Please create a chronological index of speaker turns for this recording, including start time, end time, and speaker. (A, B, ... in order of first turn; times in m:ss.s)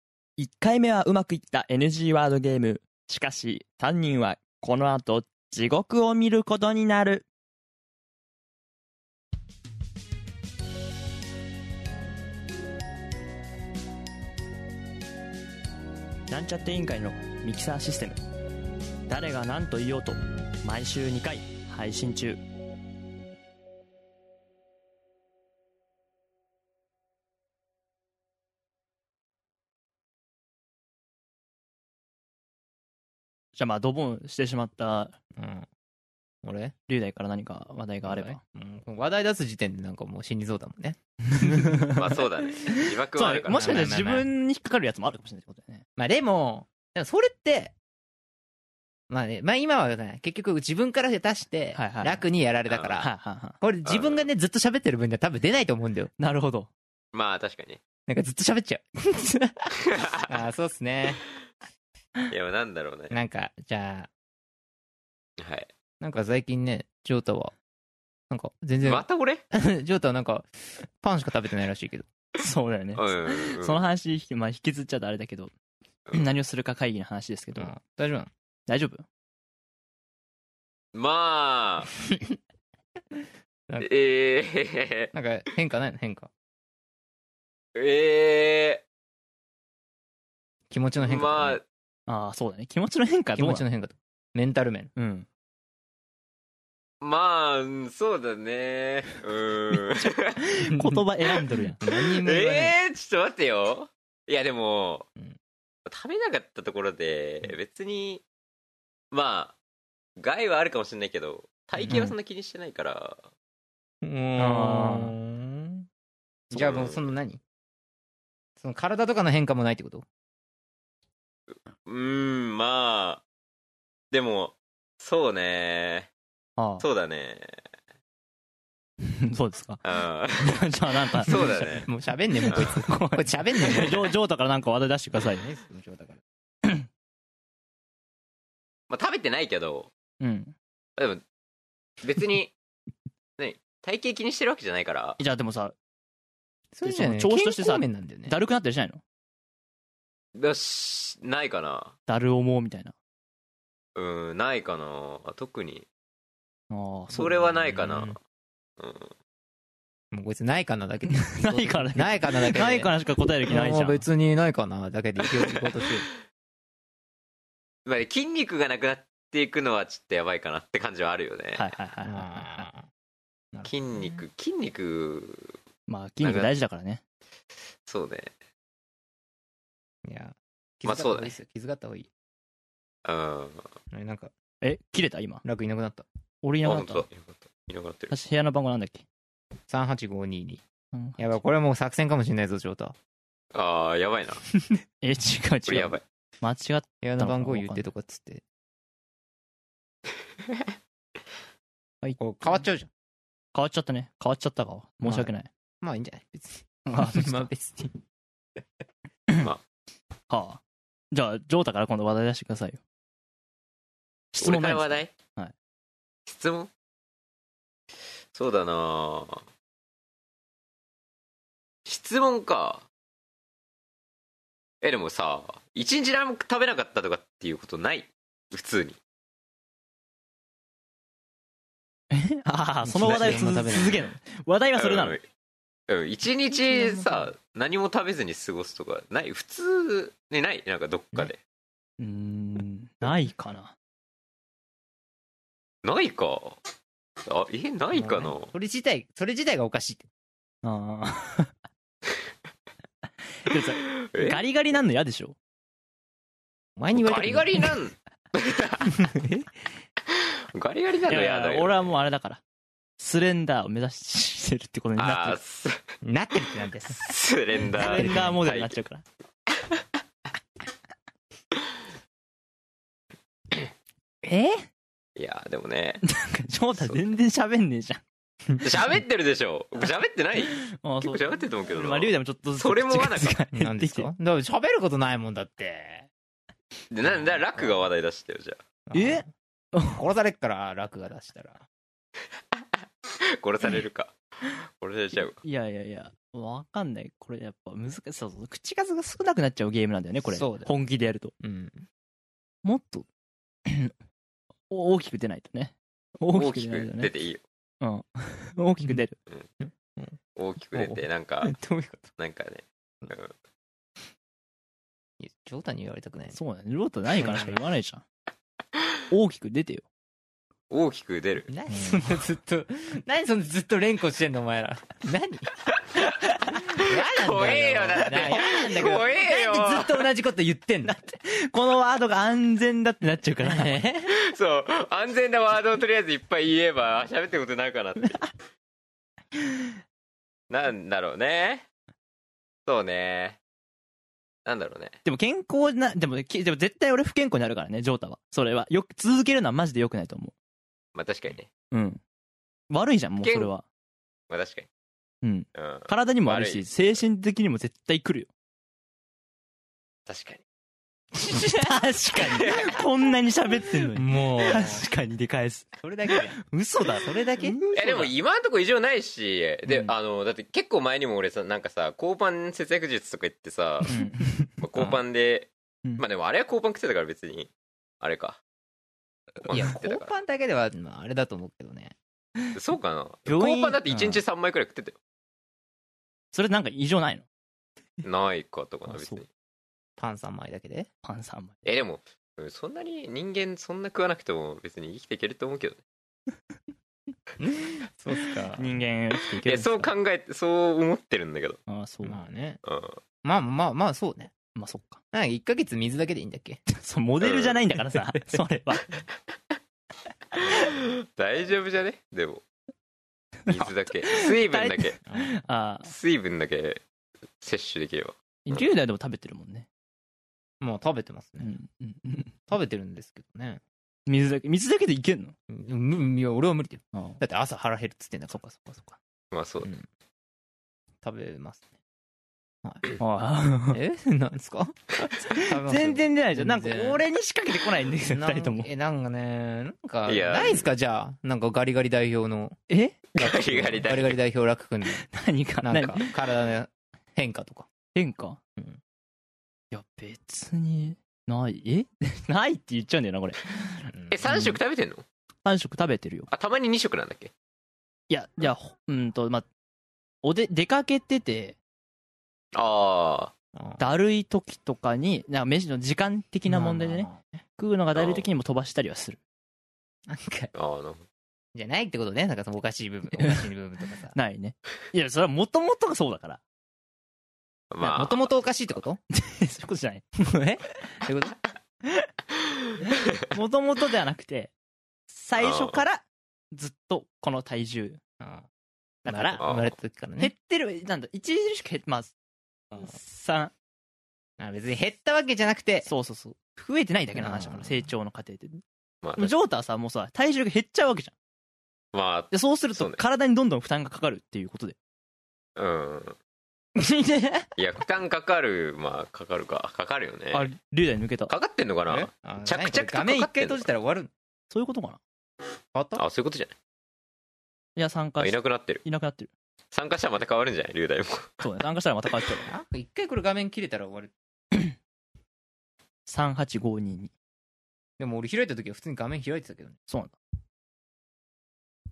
0:00.4-0:07.3 A
0:16.3-0:18.2 A
0:19.1-0:22.4 A
0:33.6-0:35.2 A
0:35.4-0:35.7 B
0:36.4-0:36.8 B
0:36.9-0:38.4 A
0:38.0-0:41.8 B
0:41.3-0:42.0 A
0:41.9-0:43.9 C
0:42.7-0:45.8 A
0:43.5-0:44.3 B
0:46.0-0:47.8 B
0:49.1-0:56.1 B
0:51.8-0:52.2 A
0:52.7-0:53.0 C
0:53.0-0:53.6 A
0:53.9-0:54.3 C
0:56.2-0:56.7 A
0:57.1-0:57.8 C
0:58.1-1:01.2 B
0:59.9-1:00.2 C
1:02.3-1:03.2 C
1:03.1-1:04.1 B
1:05.4-1:05.7 C
1:06.0-1:07.6 B
1:08.3-1:10.5 B
1:08.8-1:09.4 C
1:11.0-1:12.1 B
1:12.4-1:15.5 A
1:13.0-1:13.8 C
1:16.1-1:17.7 A
1:17.6-1:18.3 B
1:18.7-1:19.0 A
1:20.9-1:21.9 C
1:23.8-1:25.1 C
1:25.1-1:26.3 B
1:27.8-1:28.8 C
1:30.7-1:31.6 B
1:31.0-1:31.6 C
1:32.1-1:33.6 A
1:33.4-1:34.9 B
1:35.0-1:35.3 A
1:37.0-1:40.4 C
1:39.7-1:41.8 A
1:40.8-1:41.0 B
1:41.8-1:42.8 B
1:41.9-1:45.1 C
1:45.9-1:48.2 C
1:49.1-1:49.6 C
1:50.2-1:53.2 C
1:51.8-1:52.1 B
1:54.0-1:55.9 B
1:54.4-1:55.2 A
1:56.5-1:57.4 B
1:56.5-1:57.1 C
1:58.6-2:00.1 B
2:01.8-2:03.2 C
2:04.1-2:06.1 C
2:06.6-2:06.8 A
2:06.8-2:07.6 C
2:09.0-2:09.8 A
2:09.8-2:11.9 C
2:10.4-2:11.8 A
2:11.3-2:14.1 B
2:12.4-2:15.5 A
2:13.7-2:14.0 C
2:15.2-2:16.2 B
2:18.9-2:19.9 C
2:20.2-2:20.6 A
2:21.0-2:21.2 C
2:22.0-2:22.5 C
2:23.4-2:25.2 C
2:25.2-2:25.8 A
2:26.7-2:28.4 B
2:26.8-2:29.0 A
2:30.4-2:32.0 C
2:32.1-2:32.9 A
2:34.0-2:35.9 C
2:36.7-2:37.5 A
2:37.1-2:38.2 C
2:37.7-2:38.2 B
2:38.8-2:39.1 C
2:40.1-2:42.9 B
2:41.2-2:44.0 A
2:43.5-2:46.1 B
2:47.8-2:51.7 C
2:51.6-2:52.7 A
2:52.1-2:52.9 B
2:53.5-2:54.2 B
2:53.6-2:55.6 C
2:55.9-2:57.0 A
2:56.2-2:56.5 C
2:57.9-2:58.3 C
3:00.0-3:02.1 B
3:00.8-3:01.4 C
3:03.0-3:03.7 C
3:03.9-3:04.3 B
3:04.6-3:05.4 A
3:05.4-3:06.0 B
3:06.4-3:07.1 A
3:06.6-3:08.1 C
3:08.1-3:09.0 A
3:09.7-3:10.6 B
3:10.9-3:11.3 A
3:11.2-3:13.0 B
3:13.5-3:14.4 C
3:15.0-3:17.9 A
3:15.7-3:16.0 C
3:17.0-3:18.4 B
3:22.0-3:22.6 A
3:22.2-3:22.9 B
3:23.5-3:25.5 A
3:25.0-3:25.3 B
3:25.8-3:28.0 B
3:26.9-3:27.5 A
3:30.3-3:32.8 A
3:34.3-3:35.5 A
3:34.4-3:35.1 C
3:36.3-3:36.7 C
3:38.3-3:39.4 C
3:41.9-3:42.9 C
3:44.8-3:49.0 C
3:52.1-3:55.2 A
3:52.8-3:54.0 B
3:54.8-3:55.2 C
3:55.9-4:01.4 C
3:56.7-3:57.3 A
4:02.0-4:03.8 A
4:05.8-4:06.6 C
4:07.2-4:08.5 C
4:07.9-4:10.1 B
4:10.6-4:11.5 A
4:13.4-4:15.4 A
4:14.0-4:14.4 C
4:16.8-4:17.7 B
4:16.9-4:19.0 C
4:20.1-4:21.9 C
4:21.1-4:22.4 A
4:23.0-4:25.4 A
4:25.0-4:25.8 C
4:26.0-4:27.0 B
4:27.0-4:28.8 C
4:27.7-4:29.0 A
4:27.9-4:28.4 B
4:34.2-4:34.7 A
4:35.2-4:36.0 C
4:36.0-4:38.0 A
4:38.6-4:43.4 C
4:40.7-4:44.1 A
4:43.5-4:46.1 B
4:46.9-4:48.6 C
4:48.9-4:49.3 B
4:48.9-4:50.0 A
4:49.9-4:51.6 B
4:52.5-4:55.4 C
4:55.4-5:01.3 A
5:00.3-5:00.7 B
5:01.4-5:01.9 B
5:02.6-5:03.1 A
5:03.7-5:03.9 A
5:04.7-5:07.1 A
5:06.3-5:07.4 C
5:07.8-5:09.2 A
5:09.7-5:10.2 B
5:10.4-5:11.6 C
5:10.8-5:12.1 B
5:12.2-5:13.3 C
5:15.2-5:16.4 B
5:16.3-5:18.0 A
5:17.2-5:17.6 B
5:19.1-5:19.9 A
5:20.7-5:21.5 C
5:21.5-5:25.5 B
5:21.7-5:22.1 A
5:26.6-5:31.0 B
5:26.8-5:30.1 C
5:30.8-5:33.8 A
5:33.4-5:34.1 B
5:34.1-5:38.3 C
5:40.5-5:41.7 C
5:42.7-5:43.4 C
5:44.4-5:45.0 C
5:45.0-5:50.3 A
5:51.0-5:51.5 C
5:51.7-5:52.0 A
5:52.7-5:53.6 A
5:53.2-5:53.5 C
5:54.3-5:54.7 C
5:55.2-5:58.3 A
5:55.6-5:56.7 C
6:00.1-6:00.4 C
6:01.3-6:05.7 A
6:02.3-6:02.8 C
6:03.9-6:04.8 B
6:05.8-6:07.6 B
6:06.4-6:08.1 A
6:07.8-6:13.9 C
6:09.7-6:09.9 A
6:13.9-6:14.5 A
6:14.6-6:17.5 C
6:18.0-6:18.4 C
6:19.4-6:20.1 C
6:19.5-6:22.0 B
6:22.5-6:25.0 C
6:23.3-6:24.2 A
6:26.3-6:27.3 A
6:28.0-6:29.3 C
6:28.9-6:29.2 A
6:30.0-6:30.9 B
6:31.0-6:31.5 A
6:31.6-6:35.8 C
6:37.4-6:38.7 B
6:38.6-6:39.9 A
6:39.4-6:41.6 C
6:41.7-6:42.2 A
6:42.0-6:42.6 B
6:42.6-6:43.0 C
6:43.2-6:44.3 B
6:44.6-6:45.0 A
6:45.1-6:46.6 B
6:46.7-6:48.9 A
6:47.2-6:47.6 C
6:50.5-6:52.4 C
6:53.5-6:55.0 C
6:53.6-6:55.9 A
6:55.1-6:55.3 B
6:55.8-6:56.8 C
6:57.4-6:58.6 C
6:58.5-6:59.7 A
7:00.6-7:01.6 B
7:01.4-7:02.3 A
7:02.5-7:03.6 B
7:04.1-7:05.4 A
7:05.5-7:08.9 B
7:06.9-7:07.2 A
7:09.3-7:09.7 C
7:11.0-7:11.6 B
7:12.6-7:12.9 B
7:13.0-7:13.8 A
7:13.7-7:17.0 B
7:15.3-7:18.7 A
7:18.1-7:22.6 B
7:20.1-7:20.7 C
7:22.7-7:23.0 A
7:23.2-7:24.2 C
7:23.2-7:25.0 B
7:24.9-7:26.1 A
7:25.6-7:27.7 B
7:28.0-7:28.4 A
7:29.7-7:34.6 A
7:33.9-7:34.2 B
7:34.1-7:35.0 C
7:35.4-7:36.3 A
7:36.3-7:37.3 C
7:38.1-7:39.5 A
7:40.2-7:41.6 A
7:42.5-7:43.3 C
7:43.6-7:43.8 B
7:43.8-7:49.2 A
7:46.5-7:47.4 B
7:48.0-7:48.2 C
7:50.1-7:50.5 B
7:50.5-7:51.0 C
7:51.6-7:54.2 B
7:54.2-7:56.4 A
7:57.7-7:58.3 C
7:57.8-7:59.0 B
7:59.1-8:00.0 A
8:00.2-8:01.4 B
8:03.3-8:04.5 A
8:05.1-8:08.0 A
8:05.4-8:05.8 C
8:08.2-8:08.5 B
8:09.0-8:09.4 A
8:09.0-8:10.3 B
8:09.4-8:09.7 C
8:10.2-8:12.1 A
8:12.8-8:13.5 A
8:14.4-8:15.9 B
8:15.9-8:18.6 A
8:17.2-8:17.9 B
8:19.0-8:19.3 C
8:19.2-8:21.1 A
8:21.9-8:23.0 C
8:22.3-8:24.8 A
8:25.6-8:26.2 C
8:26.8-8:27.5 B
8:27.6-8:30.5 C
8:30.3-8:31.3 A
8:31.3-8:33.6 C
8:31.9-8:34.1 B
8:34.5-8:35.0 A
8:35.7-8:36.0 B
8:36.0-8:36.5 C
8:37.8-8:39.3 A
8:38.2-8:38.8 C
8:39.7-8:41.4 C
8:41.4-8:42.5 A
8:42.4-8:44.1 B
8:46.1-8:47.1 A
8:48.0-8:49.8 B
8:49.9-8:50.2 A